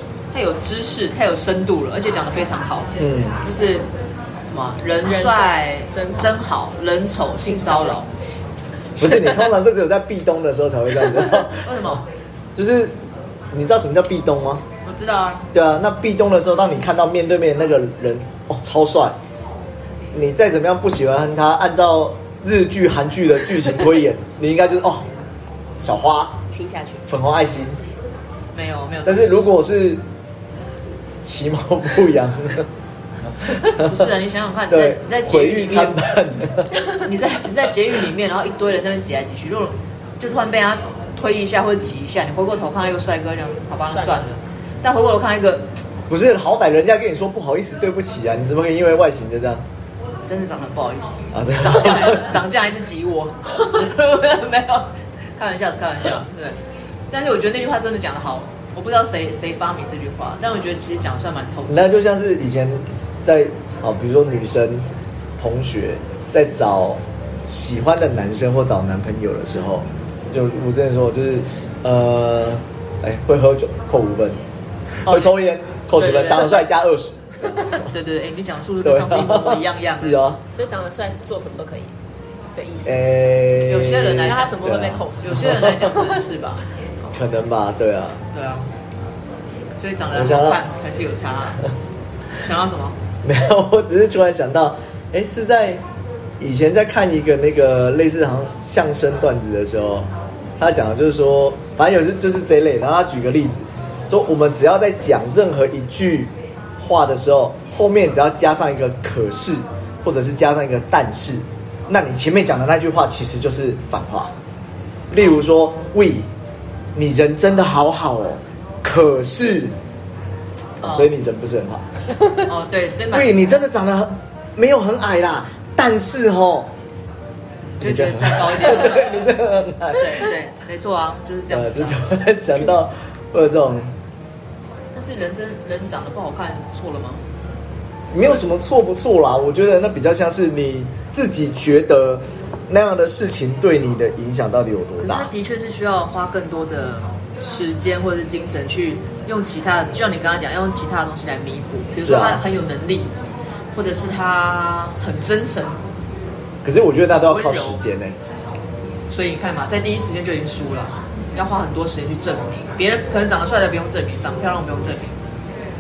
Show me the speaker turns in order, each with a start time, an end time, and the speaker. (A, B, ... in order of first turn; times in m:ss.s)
0:00.3-0:03.9 A
0:03.0-0:03.4 B
0:04.5-0:08.1 A
0:05.0-0:06.4 C
0:07.4-0:08.0 C
0:09.0-0:12.0 B
0:11.5-0:12.0 A
0:12.6-0:12.9 B
0:13.5-0:14.6 B
0:14.8-0:15.5 A
0:15.5-0:19.2 B
0:20.1-0:25.1 B
0:25.8-0:26.4 B
0:26.5-0:27.0 C
0:27.1-0:27.8 B
0:28.5-0:29.5 A
0:29.0-0:30.0 B
0:31.2-0:32.7 B
0:33.6-0:34.1 B
0:33.6-0:36.1 A
0:34.7-0:36.7 B
0:37.0-0:45.8 A
0:43.9-0:44.3 C
0:46.1-0:49.6 B
0:50.2-0:56.6 A
0:51.3-0:52.4 B
0:57.1-1:01.9 A
1:01.7-1:04.9 B
1:05.4-1:14.4 B
1:15.0-1:17.8 B
1:15.1-1:15.3 A
1:16.0-1:16.6 A
1:17.7-1:20.2 A
1:18.8-1:20.4 B
1:20.5-1:21.9 C
1:22.6-1:23.0 C
1:22.8-1:25.9 B
1:23.7-1:24.7 A
1:24.2-1:26.1 C
1:25.2-1:26.6 A
1:27.1-1:28.2 B
1:28.3-1:28.7 A
1:29.8-1:31.6 A
1:30.1-1:30.6 B
1:32.4-1:33.0 A
1:33.2-1:35.8 B
1:36.4-1:40.1 B
1:40.6-1:54.3 B
1:55.1-1:56.3 B
1:57.0-1:59.8 B
2:00.8-2:02.0 B
2:00.8-2:01.1 A
2:02.4-2:03.7 A
2:03.1-2:06.7 B
2:07.6-2:09.4 A
2:07.8-2:10.3 B
2:09.9-2:12.1 A
2:11.5-2:13.9 B
2:14.9-2:17.2 A
2:18.1-2:25.3 B
2:25.0-2:33.1 A
2:32.0-2:32.4 B
2:33.8-2:35.8 A
2:36.6-2:38.2 B
2:37.1-2:37.8 A
2:39.1-2:45.2 A